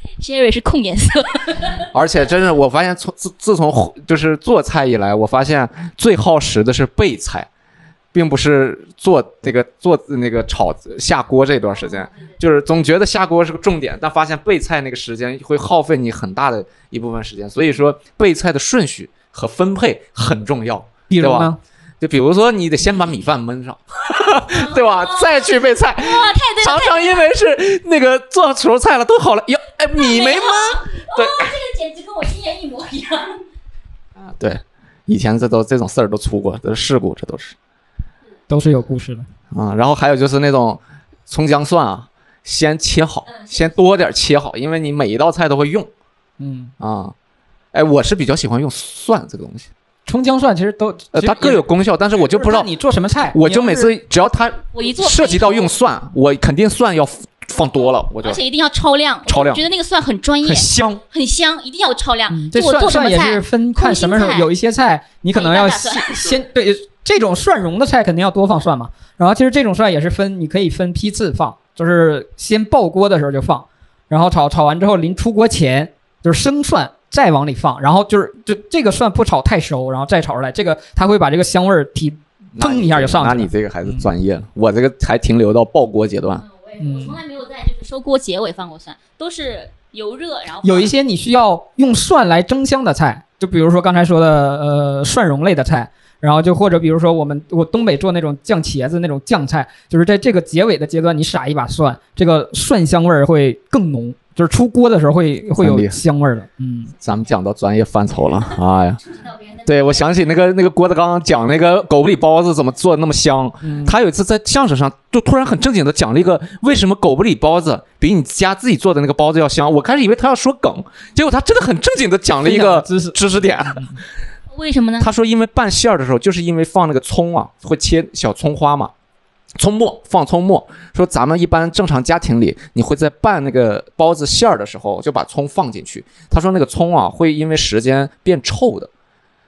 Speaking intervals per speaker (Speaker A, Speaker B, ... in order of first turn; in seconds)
Speaker A: 0.2-1.8, 24.5-27.3, 30.0-33.4, 54.7-55.8, 58.2-64.5, 65.3-66.4, 86.4-90.9, 124.5-125.1
Speaker B: 1.8-7.5, 8.1-31.5, 34.2-37.6, 39.5-45.9, 46.8-47.1, 47.7-49.7, 51.1-52.7, 53.3-58.4, 59.3-59.6, 82.6-86.4, 105.6-106.0, 107.0-109.0, 109.6-124.0, 125.0-128.9, 129.6-138.9
Speaker C: 21.1-21.6, 38.5-39.3, 46.4-46.7, 50.1-51.7, 52.2-53.9, 60.5-61.0, 62.3-84.1, 86.8-87.2, 90.6-106.9, 113.6-114.0, 122.4-123.2